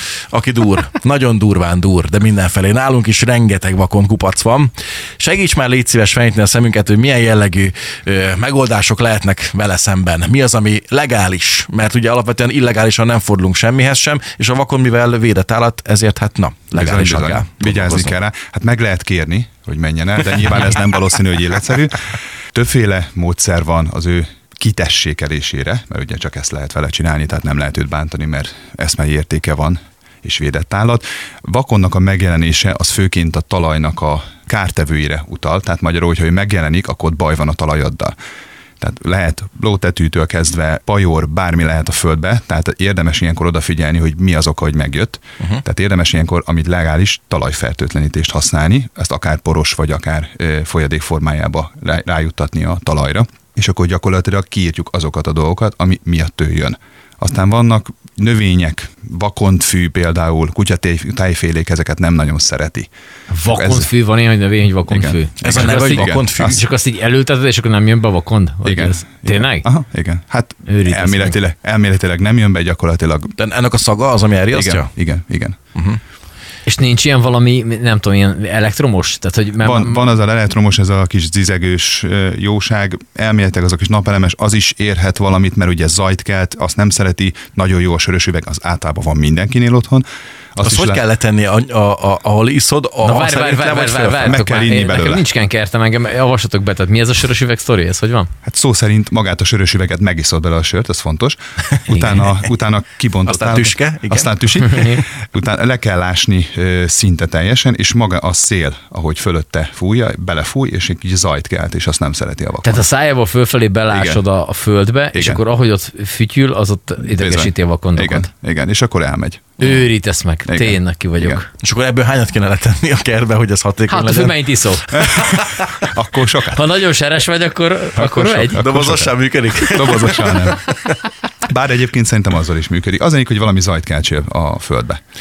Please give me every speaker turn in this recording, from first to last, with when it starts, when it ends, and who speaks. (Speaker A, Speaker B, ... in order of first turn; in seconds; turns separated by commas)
Speaker A: 0.3-18.1, Speaker B: 16.7-38.1, Speaker B: 38.8-62.9, Speaker C: 63.3-69.7, Speaker B: 63.5-63.9, Speaker B: 64.9-66.6, Speaker A: 65.4-66.6, Speaker B: 68.6-73.3, Speaker C: 70.7-71.4, Speaker A: 73.4-74.9, Speaker B: 74.5-75.6, Speaker C: 76.7-80.2, Speaker B: 79.6-91.0, Speaker A: 90.6-94.5, Speaker C: 93.0-98.3, Speaker B: 94.2-95.2, Speaker B: 98.4-112.9, Speaker A: 103.2-104.9, Speaker C: 104.7-105.0, Speaker C: 112.6-118.3, Speaker B: 113.9-114.2, Speaker B: 115.1-115.4, Speaker B: 117.0-119.6, Speaker C: 119.6-121.5, Speaker B: 120.5-121.4, Speaker A: 121.6-125.9, Speaker C: 123.9-125.0, Speaker B: 124.9-126.6, Speaker C: 126.5-128.6, Speaker B: 128.0-130.6, Speaker A: 128.4-130.6, Speaker B: 131.4-135.0